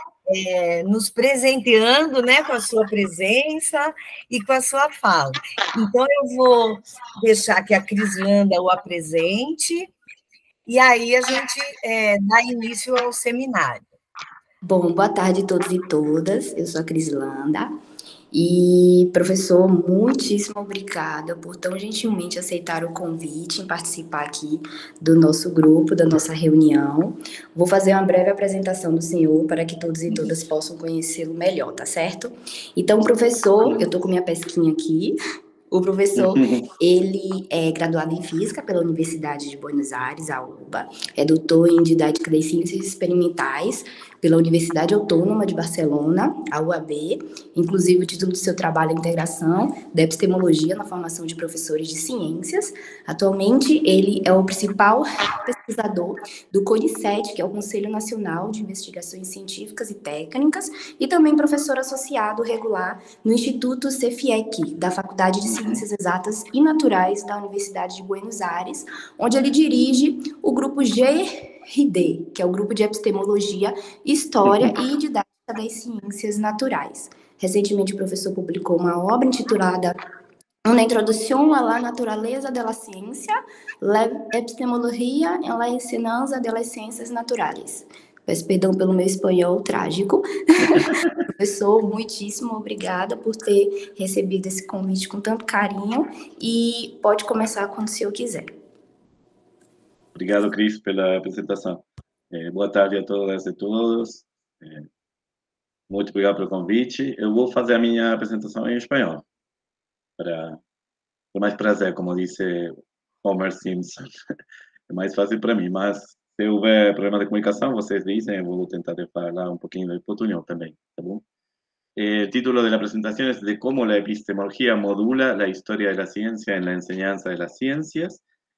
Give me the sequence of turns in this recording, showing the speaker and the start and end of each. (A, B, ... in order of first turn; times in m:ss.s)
0:00.3-0:09.9 A
0:10.7-0:13.8 A
0:14.6-0:17.7 B
0:18.3-0:35.2 B
0:30.1-0:30.3 C
0:35.7-1:20.0 B
0:36.2-0:36.7 C
1:05.5-1:05.8 C
1:14.4-1:14.8 C
1:20.7-1:38.5 B
1:40.2-1:44.9 C
1:45.9-1:49.2 C
1:50.2-1:50.6 C
1:51.3-1:54.1 C
1:54.9-2:01.2 C
2:02.0-2:08.2 C